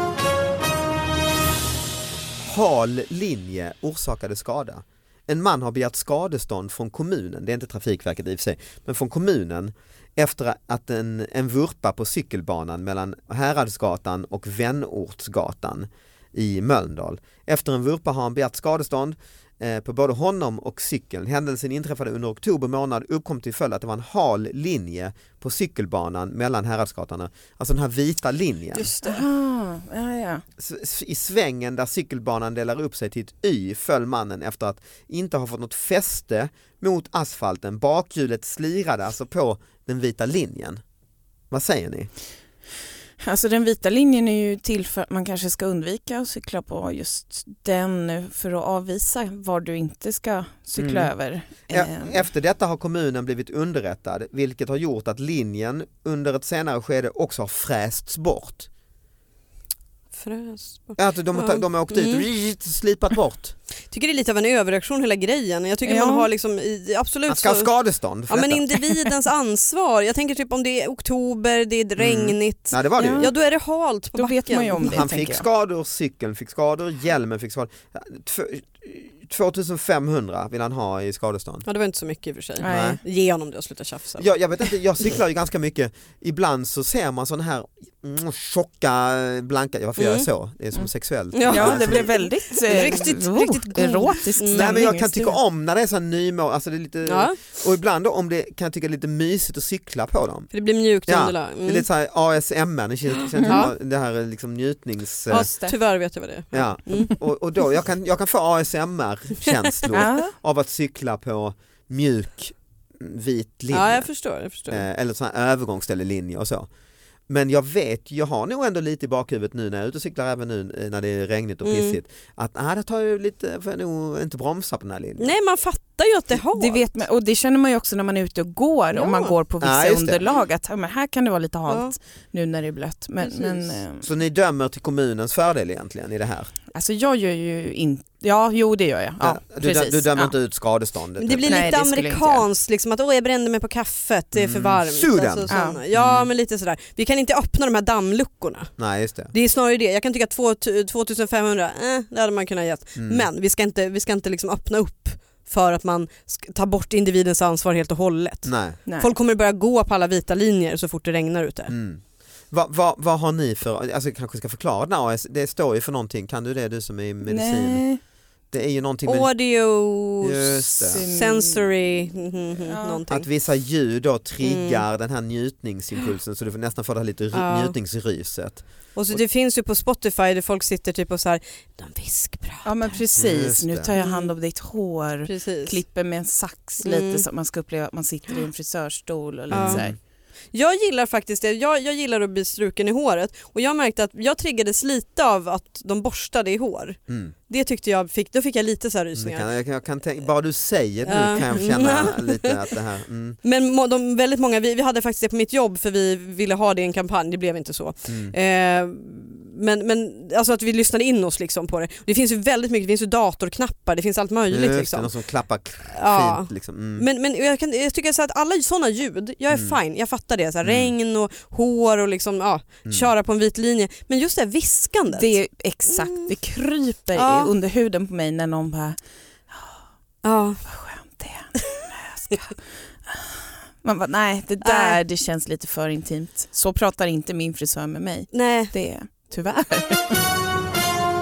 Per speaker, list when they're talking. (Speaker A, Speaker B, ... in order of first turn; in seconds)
Speaker A: 2.4-28.9, 30.6-40.8, 41.5-42.1, 50.8-51.1, 51.7-58.7, 61.0-63.6, 67.3-68.9, 72.0-73.3, 74.8-81.7, 82.6-83.0, 84.2-92.1, 94.5-100.5, 101.1-105.5, 106.5-114.1, 114.7-116.7, 117.3-125.4, 129.6-130.3, 134.0-136.5, 139.2-141.8, 144.3-146.3, 148.8-149.3, 153.0-153.3, 158.4-158.8, 161.7-167.8, 168.5-169.3, 170.2-171.0, 173.1-179.2, 183.2-183.9, 189.5-190.0, 199.2-203.4, 208.1-208.4, 214.5-217.1, 219.5-219.8, 220.6-220.9, 222.9-223.1
Speaker B: 28.7-29.3, 60.1-62.3, 63.9-67.7, 68.3-74.9, 81.7-84.3, 90.0-90.3, 91.3-94.8, 97.1-97.4, 100.5-101.9, 103.5-103.7, 105.3-107.2, 113.7-114.8, 121.6-122.0, 125.2-126.9, 128.9-129.3, 131.7-131.9, 133.2-133.7, 141.2-148.7, 149.3-161.7, 169.1-173.3, 174.4-174.8, 177.3-177.7, 179.0-183.1, 184.0-184.3, 185.3-185.8, 186.8-187.2, 189.5-189.8, 190.5-199.5, 201.1-202.6, 203.4-215.1, 215.9-225.3, 225.9-226.3, 227.2-227.5, 230.2-230.6, 234.6-235.0, 238.3-238.7
Speaker C: 29.0-30.4, 43.2-52.2, 65.8-66.3, 73.0-73.3, 74.2-75.5, 82.6-83.0, 91.5-95.4, 103.4-103.7, 105.3-105.8, 109.9-110.3, 126.5-134.0, 136.7-140.3, 141.5-142.5, 145.5-145.8, 167.2-168.0, 170.8-171.7, 172.6-173.0, 182.7-190.0, 225.1-229.0, 229.5-229.8, 230.7-232.6, 233.1-240.2